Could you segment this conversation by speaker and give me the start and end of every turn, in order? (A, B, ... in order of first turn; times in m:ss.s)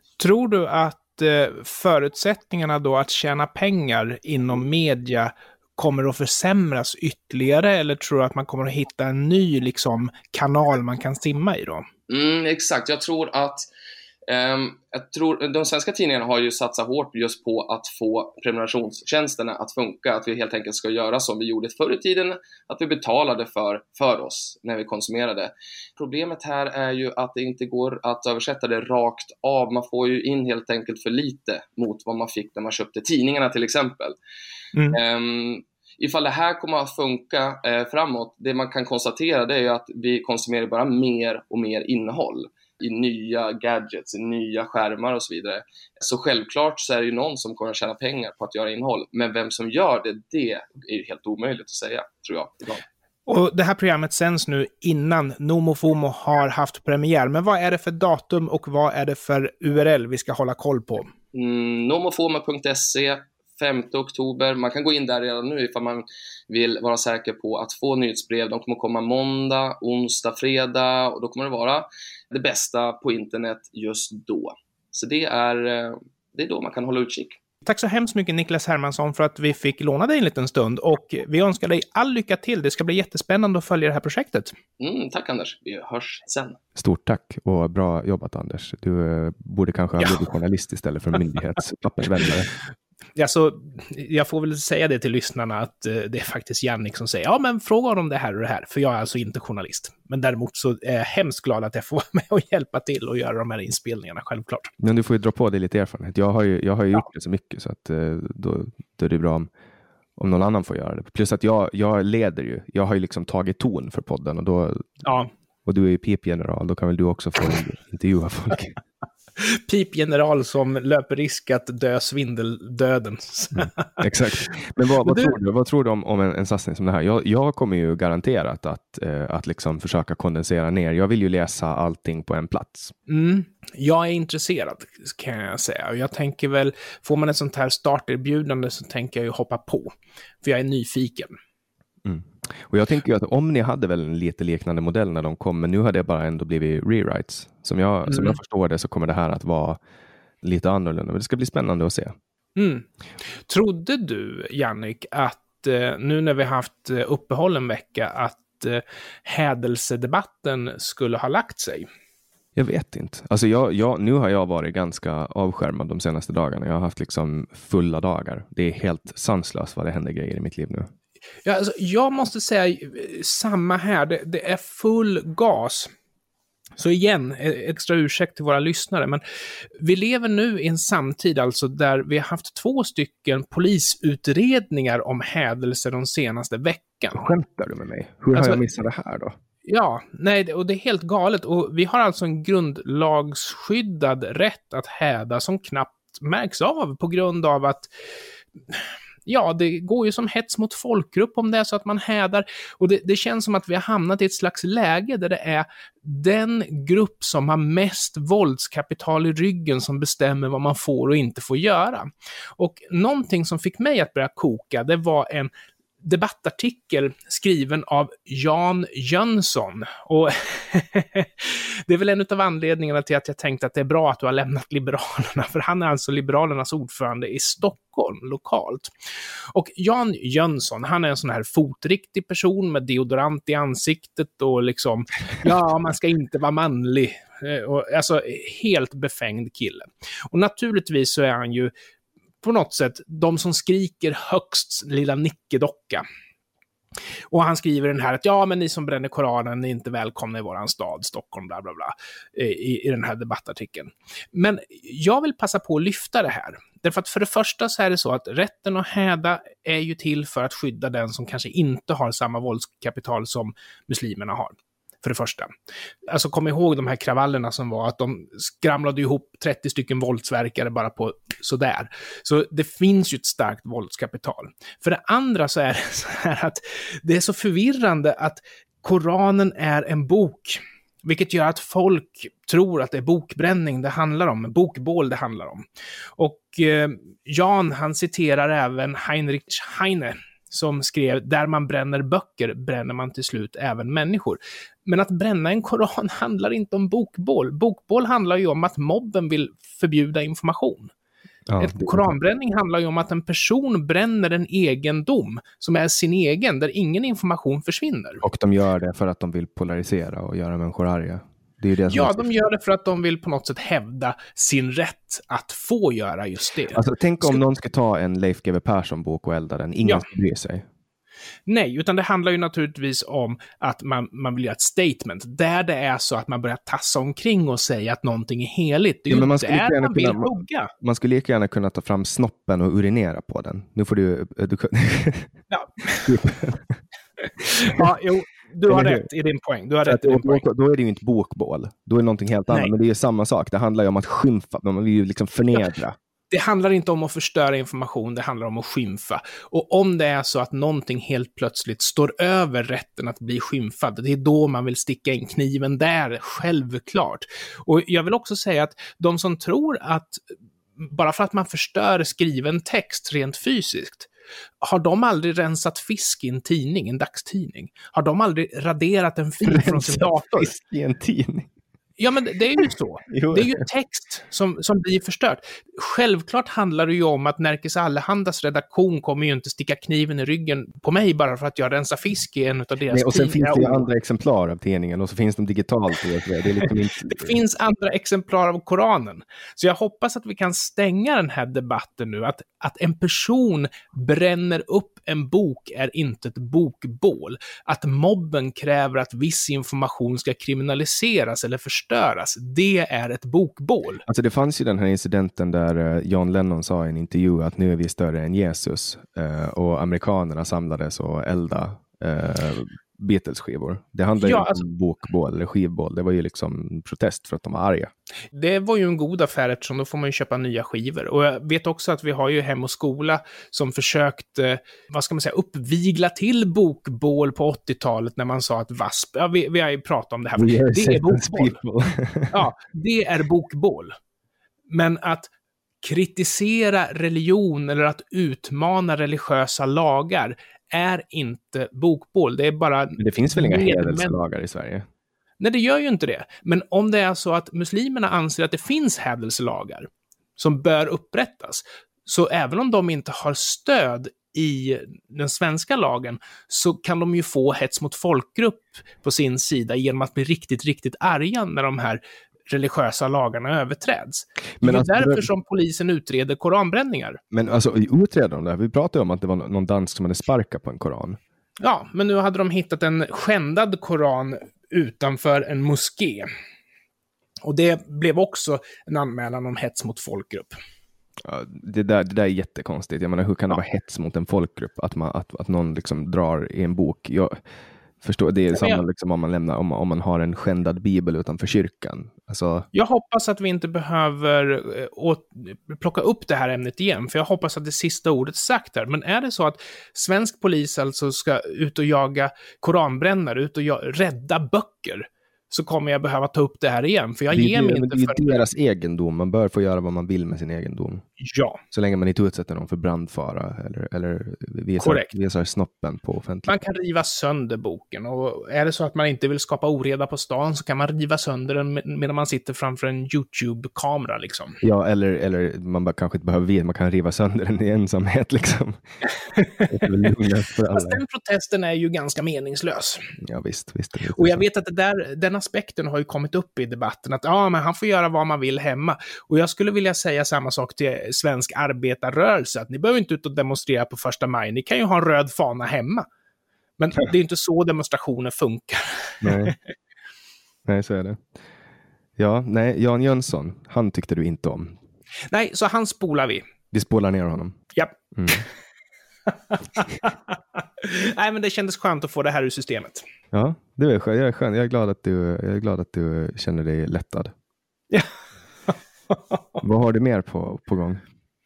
0:00.2-0:11.9 A
0:12.1-0:13.7 B
0:14.3-0:34.2 B
0:34.7-0:35.0 A
0:34.9-0:52.8 B
0:53.3-1:01.1 A
1:01.3-1:17.4 B
1:17.6-1:24.6 A
1:24.8-1:26.6 B
1:26.8-1:32.5 C
1:30.0-1:30.2 A
1:33.2-1:44.7 A
1:44.8-1:49.5 C
1:50.2-1:54.9 C
1:55.0-1:55.3 A
1:55.6-1:58.8 C
1:59.4-2:04.0 A
2:03.6-2:13.0 C
2:05.0-2:05.4 A
2:13.1-2:21.3 A
2:22.0-2:29.8 C
2:28.1-2:28.4 A
2:30.4-2:32.1 C
2:32.6-2:32.9 A
2:33.4-2:41.9 A
2:42.6-2:50.9 C
2:51.4-2:55.9 A
2:56.8-2:59.2 A
2:59.8-3:07.3 A
3:07.1-3:09.4 C
3:08.3-3:08.6 A
3:09.6-3:17.9 A
3:18.7-3:48.9 A
3:49.5-4:01.7 A
4:02.4-4:06.0 A
4:07.3-4:25.5 A
4:26.1-4:45.6 A
4:46.2-5:00.9 A
5:01.5-5:02.1 C
5:01.6-5:08.2 A
5:08.2-5:12.3 C
5:11.9-5:17.4 A
5:16.7-5:20.6 C
5:21.5-5:30.7 A
5:29.1-5:35.4 C
5:35.5-5:36.2 A
5:36.0-5:36.8 C
5:37.4-5:40.4 A
5:37.5-5:37.9 C
5:38.7-5:39.1 C
5:39.8-5:46.0 C
5:46.3-6:00.2 A
6:00.8-6:04.1 A
6:04.6-6:10.5 A
6:09.4-6:11.5 C
6:12.0-6:23.9 A
6:13.1-6:13.6 C
6:22.9-6:27.4 C
6:26.6-6:44.0 A
6:44.1-6:57.9 C
6:54.2-6:54.6 A
6:58.3-7:11.6 A
7:10.4-7:12.4 C
7:12.3-7:14.0 A
7:14.7-7:15.3 A
7:15.8-7:24.1 A
7:23.0-7:24.9 C
7:25.4-7:47.2 A
7:44.6-7:45.3 C
7:47.3-7:51.2 C
7:51.6-7:56.3 A
7:57.4-8:00.6 A
8:01.2-8:07.4 C
8:08.0-8:12.7 C
8:08.5-8:08.8 A
8:12.7-8:28.4 A
8:27.3-8:31.0 C
8:31.2-8:31.6 A
8:31.7-8:36.5 C
8:34.8-8:35.1 A
8:36.5-8:44.6 A
8:44.6-8:48.8 C
8:49.4-8:50.1 A
8:49.7-8:51.0 C
8:50.7-8:53.0 A
8:53.2-8:54.4 C
8:54.1-9:06.1 A
9:06.8-9:09.6 A
9:09.2-9:09.6 C
9:10.7-9:11.3 C
9:12.2-9:14.8 C
9:15.3-9:16.4 A
9:16.7-9:17.6 C
9:17.8-9:18.4 A
9:18.1-9:18.5 C
9:19.3-9:23.0 A
9:23.3-9:27.3 C
9:28.7-9:29.6 A
9:29.6-9:31.0 C